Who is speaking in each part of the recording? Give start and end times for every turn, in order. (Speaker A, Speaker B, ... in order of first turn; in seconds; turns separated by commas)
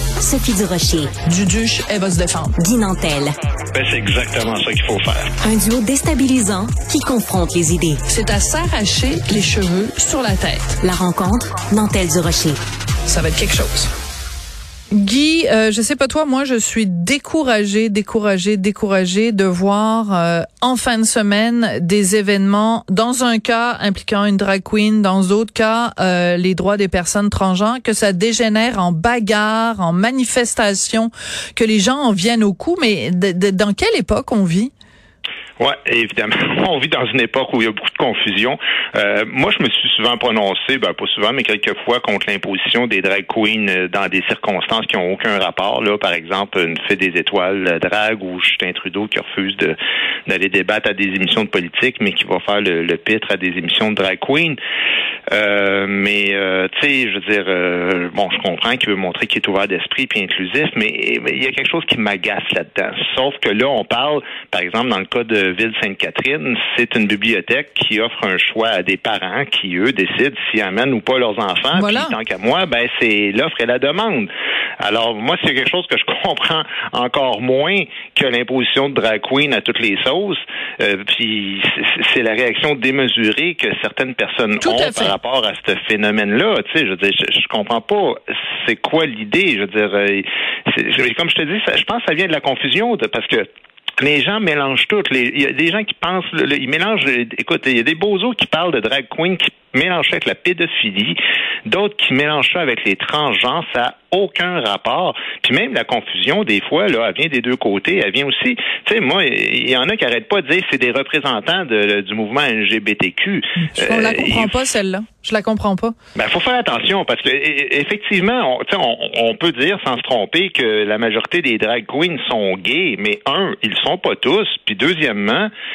Speaker A: 0.2-1.1, Speaker B: 1.2-2.5, Speaker A: 2.6-3.3, Speaker C: 3.7-5.3, Speaker A: 5.4-8.0, Speaker B: 8.1-10.8, Speaker A: 10.8-12.6, Speaker B: 13.1-13.9, Speaker B: 14.9-34.7, Speaker C: 35.6-49.8, Speaker C: 50.3-54.6, Speaker C: 55.3-93.5, Speaker B: 71.7-72.2, Speaker B: 84.6-85.2, Speaker C: 94.0-114.5, Speaker B: 113.7-115.9, Speaker C: 116.1-125.5